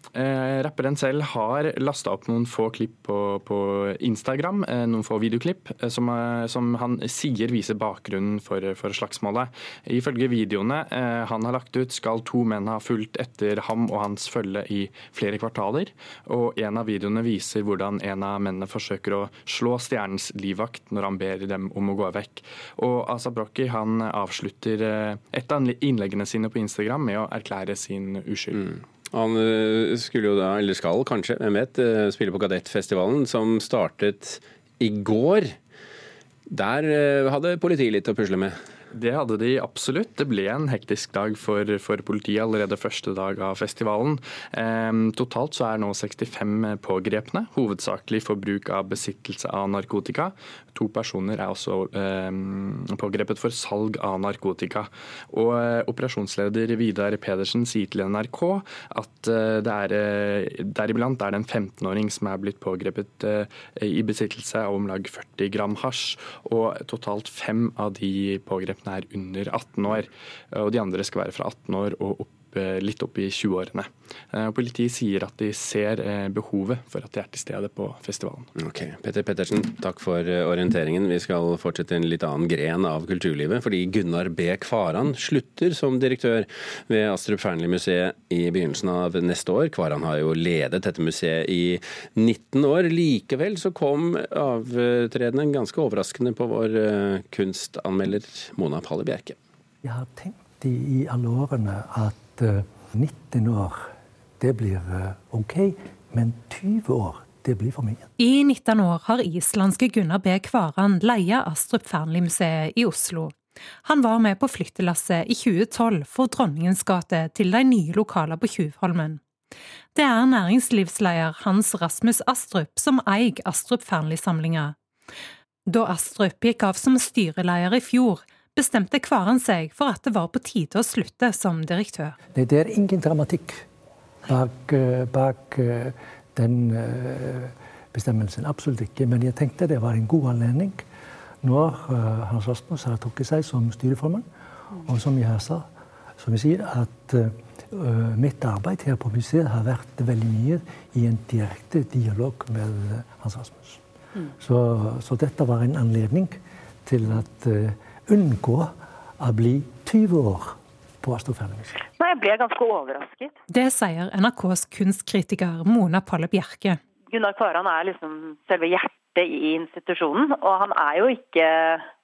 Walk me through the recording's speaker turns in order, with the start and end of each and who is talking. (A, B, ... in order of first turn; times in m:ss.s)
0:00.1-0:28.7 A
0:28.5-0:35.5 B
0:36.5-0:38.5 B
0:38.9-1:18.5 A
1:18.6-1:39.4 B
1:39.8-1:43.8 C
1:44.4-1:48.0 C
1:48.2-1:59.2 D
1:59.9-2:04.8 D
2:05.7-2:12.2 D
2:12.3-2:13.6 C
2:14.2-2:20.8 C
2:21.4-2:25.6 C
2:26.2-2:33.8 C
2:34.4-2:41.8 C
2:42.0-2:43.3 E
2:43.5-2:46.8 D
2:47.1-2:51.8 E